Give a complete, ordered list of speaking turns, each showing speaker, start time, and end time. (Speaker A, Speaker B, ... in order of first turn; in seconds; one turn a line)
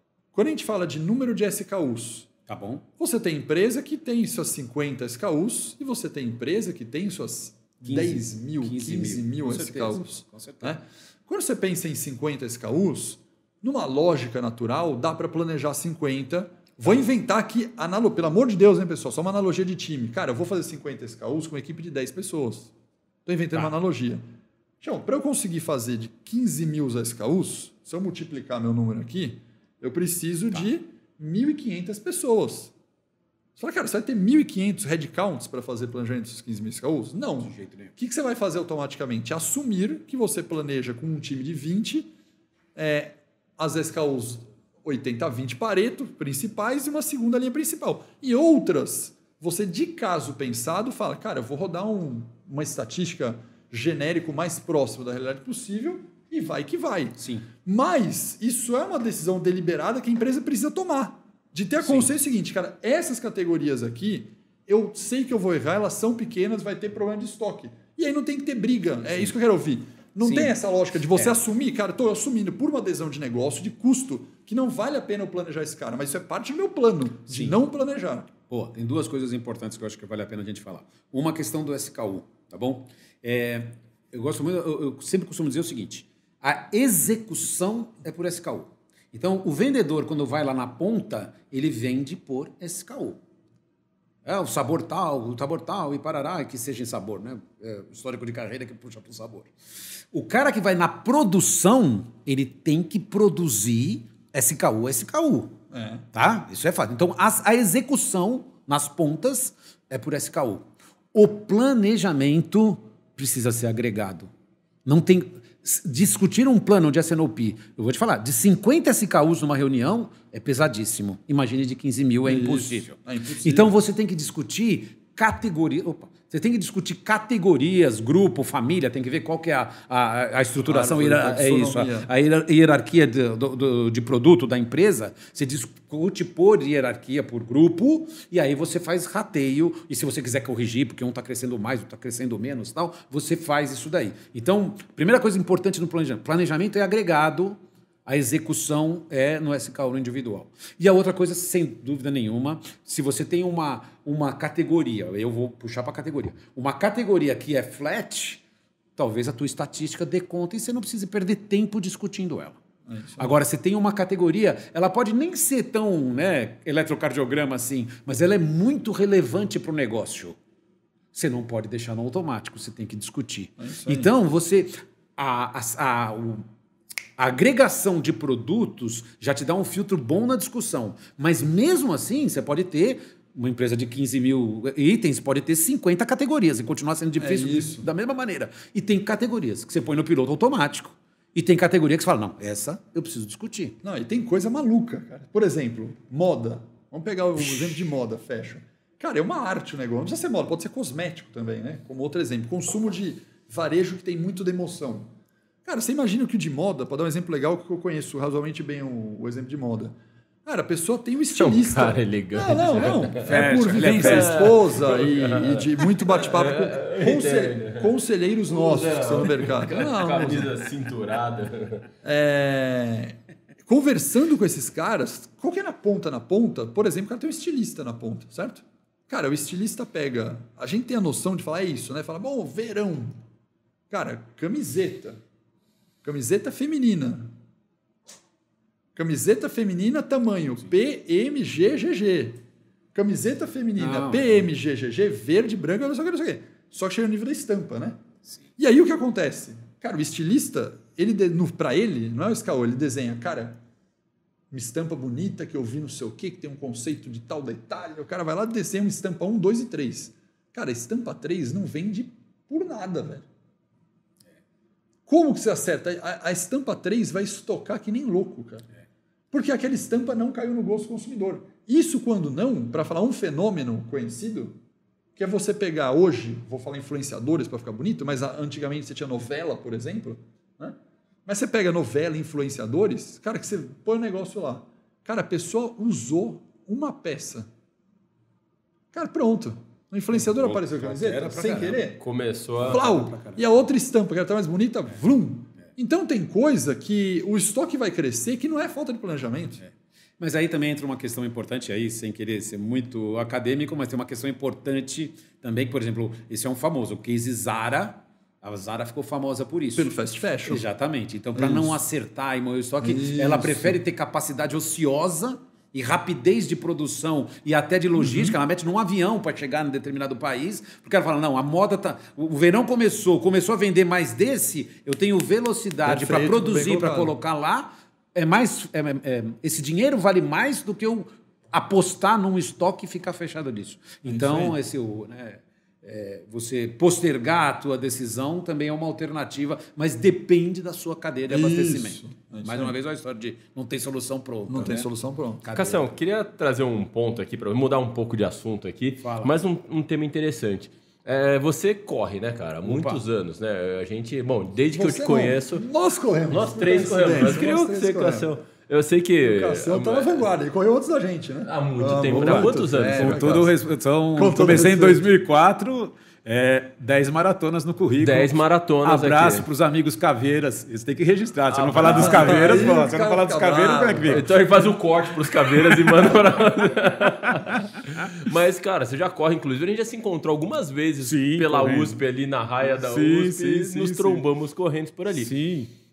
Speaker A: 0.3-2.3
Speaker B: 2.5-2.8
Speaker A: 3.0-22.7
Speaker B: 7.8-10.8
Speaker A: 23.3-24.2
Speaker A: 24.8-32.7
Speaker A: 33.6-42.1
Speaker B: 37.4-37.9
Speaker A: 42.8-78.3
Speaker B: 57.2-57.5
Speaker B: 61.8-62.1
Speaker B: 70.2-70.5
Speaker B: 77.3-77.6
Speaker B: 78.5-93.2
Speaker B: 94.2-99.5
Speaker B: 100.1-105.5
Speaker A: 105.7-106.0
Speaker B: 106.1-114.3
Speaker B: 114.8-158.4
Speaker A: 122.2-123.7
Speaker A: 130.7-132.1
Speaker B: 159.0-162.6
Speaker A: 162.9-163.3
Speaker B: 163.2-170.4
Speaker B: 171.1-176.4
Speaker A: 173.6-174.1
Speaker B: 177.2-193.8
Speaker A: 187.2-187.9
Speaker A: 193.8-205.1
Speaker A: 205.7-220.6
Speaker C: 211.3-217.9
Speaker B: 213.2-214.6
Speaker C: 218.5-221.9
Speaker A: 222.0-233.2
Speaker A: 233.9-235.2
Speaker A: 236.0-237.3
Speaker A: 239.0-242.4
Speaker A: 242.9-248.0
Speaker B: 243.8-244.4
Speaker A: 248.6-253.6
Speaker A: 254.5-263.3
Speaker A: 265.1-268.6
Speaker A: 269.3-274.6
Speaker A: 275.2-287.5
Speaker A: 288.9-292.0
Speaker B: 290.1-291.8
Speaker C: 292.0-292.8
Speaker A: 292.6-299.6
Speaker B: 292.7-293.4
Speaker B: 299.6-309.9
Speaker A: 309.8-310.6
Speaker B: 310.5-344.9
Speaker A: 311.4-311.8
Speaker A: 312.8-313.8
Speaker A: 318.0-318.4
Speaker A: 325.9-327.1
Speaker A: 334.1-334.6
Speaker A: 341.3-342.7
Speaker A: 344.5-345.4
Speaker B: 345.4-345.9
Speaker C: 345.5-355.6
Speaker B: 349.0-349.3
Speaker B: 352.6-353.0
Speaker A: 354.7-358.3
Speaker C: 356.3-360.3
Speaker A: 359.2-363.6
Speaker C: 361.4-363.4
Speaker B: 362.1-374.3
Speaker A: 364.1-365.1
Speaker C: 368.0-369.5
Speaker C: 371.5-372.7
Speaker A: 371.8-374.2
Speaker C: 374.1-385.3
Speaker B: 375.6-375.9
Speaker B: 381.1-382.0
Speaker B: 382.6-384.2
Speaker B: 385.1-385.7